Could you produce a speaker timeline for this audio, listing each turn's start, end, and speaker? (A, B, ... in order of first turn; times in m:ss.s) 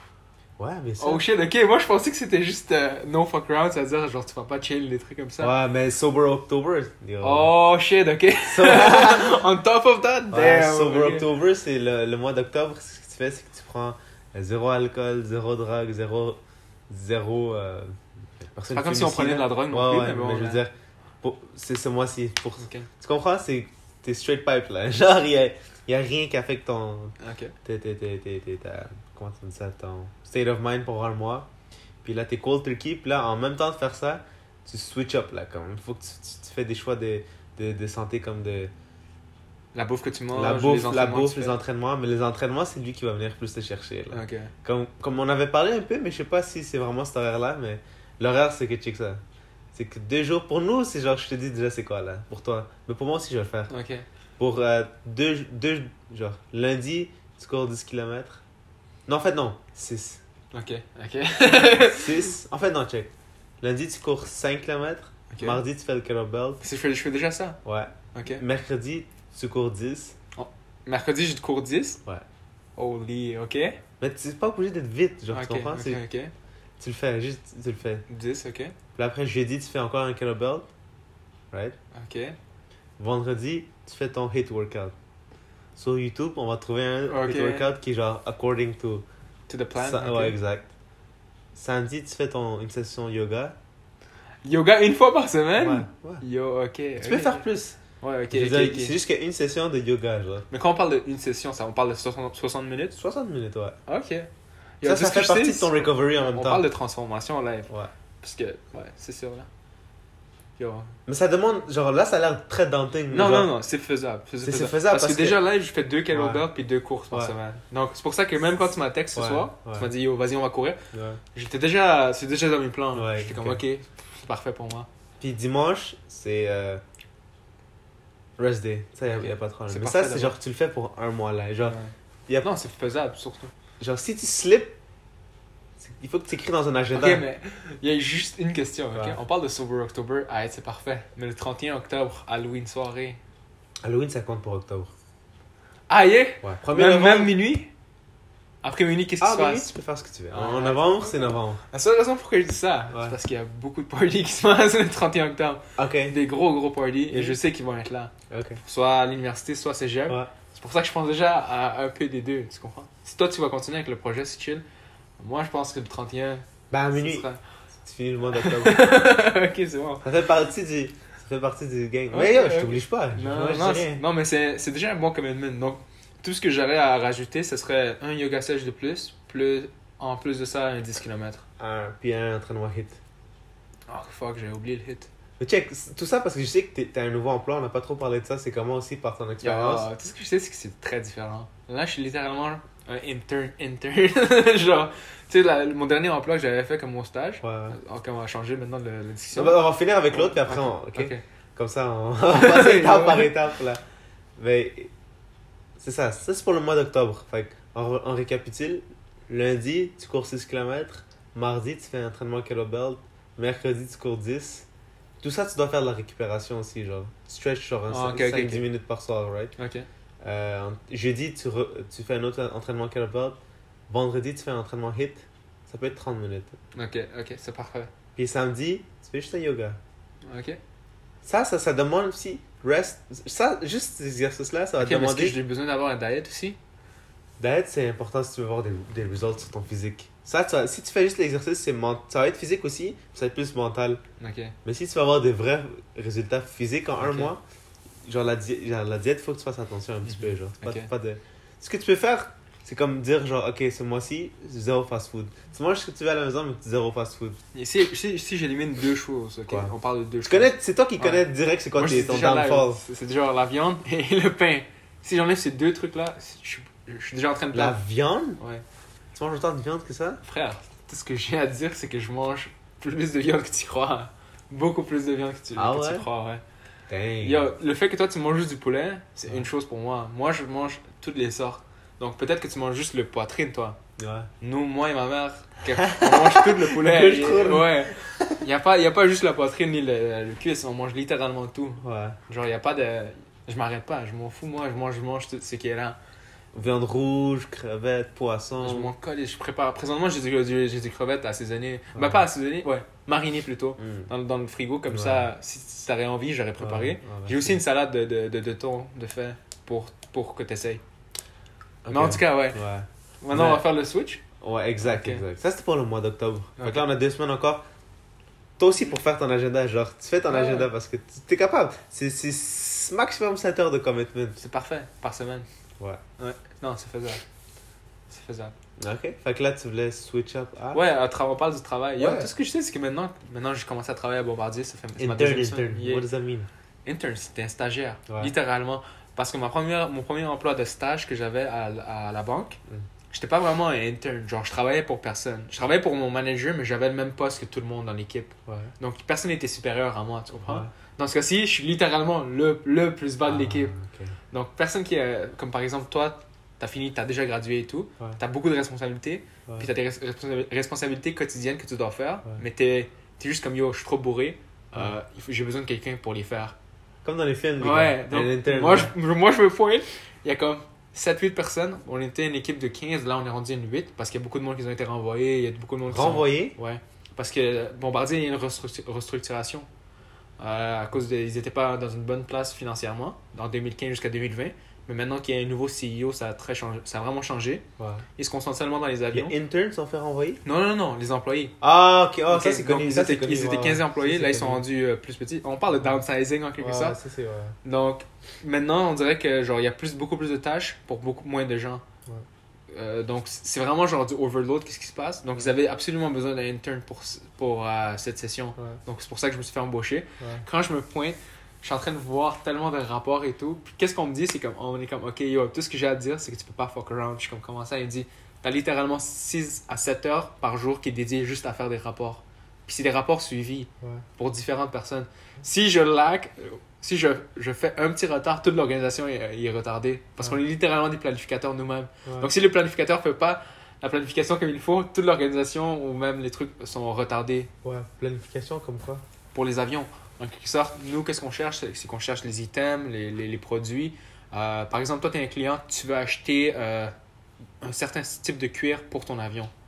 0:00.6-0:01.2 A
0:01.0-0:05.5 B
0:05.4-0:07.5 A
0:07.2-0:11.3 B
0:08.5-0:09.4 A
0:10.3-0:27.1 A
0:18.7-0:20.6 B
0:22.6-0:22.9 B
0:27.2-0:27.6 B
0:27.6-0:31.5 A
0:32.0-0:38.7 A
0:39.7-0:41.6 B
0:40.3-0:49.2 A
0:44.1-0:44.5 B
0:49.7-0:53.7 A
0:53.7-0:54.1 B
0:54.4-0:58.4 A
0:59.1-1:00.2 A
1:00.5-1:02.2 B
1:01.8-1:06.6 A
1:05.3-1:05.6 B
1:06.6-1:07.6 B
1:07.6-1:10.2 A
1:08.1-1:08.4 B
1:10.4-1:12.0 B
1:12.8-1:13.8 B
1:14.0-1:16.0 A
1:15.3-1:16.3 B
1:16.8-1:18.0 A
1:18.1-1:18.8 B
1:19.0-1:20.7 A
1:21.9-1:22.4 B
1:23.0-1:24.9 A
1:25.8-1:29.0 A
1:27.1-1:27.7 B
1:29.5-1:30.4 B
1:29.8-1:30.7 A
1:31.6-1:33.6 A
1:34.4-1:37.4 B
1:35.6-1:36.2 A
1:37.0-1:37.8 A
1:38.0-1:39.0 B
1:38.3-1:40.5 A
1:40.5-1:43.0 B
1:43.0-1:43.8 A
1:43.9-1:44.3 B
1:44.8-1:47.7 B
1:44.8-1:46.7 A
1:48.2-1:49.5 B
1:50.6-1:50.9 B
1:51.1-1:53.5 A
1:53.1-2:00.8 B
1:54.4-1:55.4 A
1:56.1-1:56.5 A
1:59.2-1:59.9 A
2:00.9-2:01.2 A
2:01.4-2:04.9 B
2:03.0-2:03.6 A
2:05.2-2:06.8 A
2:08.4-2:11.8 A
2:09.1-2:10.4 B
2:11.6-2:13.5 B
2:13.8-2:14.8 A
2:15.8-2:17.2 A
2:16.9-2:23.2 B
2:23.8-2:24.9 A
2:25.9-2:27.7 B
2:26.4-2:27.3 A
2:28.6-2:29.7 B
2:29.2-2:31.6 A
2:30.3-2:38.1 B
2:35.8-2:36.2 A
2:37.1-2:37.4 A
2:38.3-2:38.6 A
2:38.6-2:44.6 B
2:45.2-2:47.4 B
2:46.7-2:47.3 A
2:47.8-2:49.0 A
2:48.4-2:50.0 B
2:50.0-2:54.0 A
2:52.1-3:01.4 B
3:01.6-3:03.0 A
3:03.9-3:05.1 B
3:05.4-3:09.9 A
3:09.4-3:21.2 B
3:17.4-3:17.8 A
3:19.3-3:23.8 A
3:22.3-3:23.4 B
3:24.4-3:24.9 A
3:25.8-3:34.7 A
3:35.2-3:39.5 A
3:37.9-3:38.7 B
3:39.6-3:39.9 B
3:40.2-3:46.6 A
3:46.7-3:47.9 B
3:48.2-3:49.8 A
3:50.3-3:50.6 B
3:51.2-3:55.4 A
3:54.8-3:56.6 B
3:57.4-4:04.0 A
4:04.2-4:04.6 B
4:04.6-4:07.4 A
4:07.0-4:07.3 B
4:08.1-4:17.4 A
4:10.1-4:10.9 B
4:17.5-4:27.8 B
4:20.2-4:22.8 A
4:27.5-4:28.4 A
4:28.4-4:28.6 B
4:29.2-4:30.2 A
4:30.2-4:36.4 B
4:35.6-4:36.1 A
4:36.9-4:37.5 A
4:37.2-4:43.8 B
4:44.0-4:44.3 A
4:44.4-4:56.0 B
4:45.8-4:48.4 A
4:51.8-4:52.2 A
4:56.5-4:58.9 A
4:58.6-5:10.8 B
5:02.0-5:02.2 A
5:03.8-5:04.1 A
5:04.9-5:05.3 A
5:06.6-5:07.6 A
5:11.8-5:13.7 A
5:11.9-5:12.6 B
5:13.2-5:14.2 B
5:14.4-5:17.6 A
5:14.8-5:15.2 B
5:16.6-5:16.9 B
5:18.6-5:24.4 A
5:20.3-5:20.7 B
5:24.4-5:25.5 B
5:26.2-5:27.2 B
5:28.1-5:28.6 B
5:28.8-5:30.8 A
5:30.7-5:36.1 B
5:32.0-5:32.3 A
5:35.0-5:36.5 A
5:36.8-5:42.6 B
5:43.1-5:53.7 B
5:48.5-5:48.7 A
5:50.3-5:50.7 A
5:53.3-5:54.2 A
5:54.3-6:06.6 B
6:07.0-6:08.9 A
6:07.6-6:19.7 B
6:15.9-6:16.6 A
6:20.4-6:27.6 B
6:27.8-6:28.0 A
6:28.2-6:29.4 B
6:29.1-6:30.4 A
6:30.4-6:31.6 B
6:31.6-6:34.6 A
6:32.3-6:37.0 B
6:36.6-6:37.6 A
6:37.6-6:41.8 B
6:42.7-7:17.5 B
7:12.0-7:12.3 A
7:17.6-7:19.0 A
7:19.3-7:27.0 B
7:27.6-7:29.5 B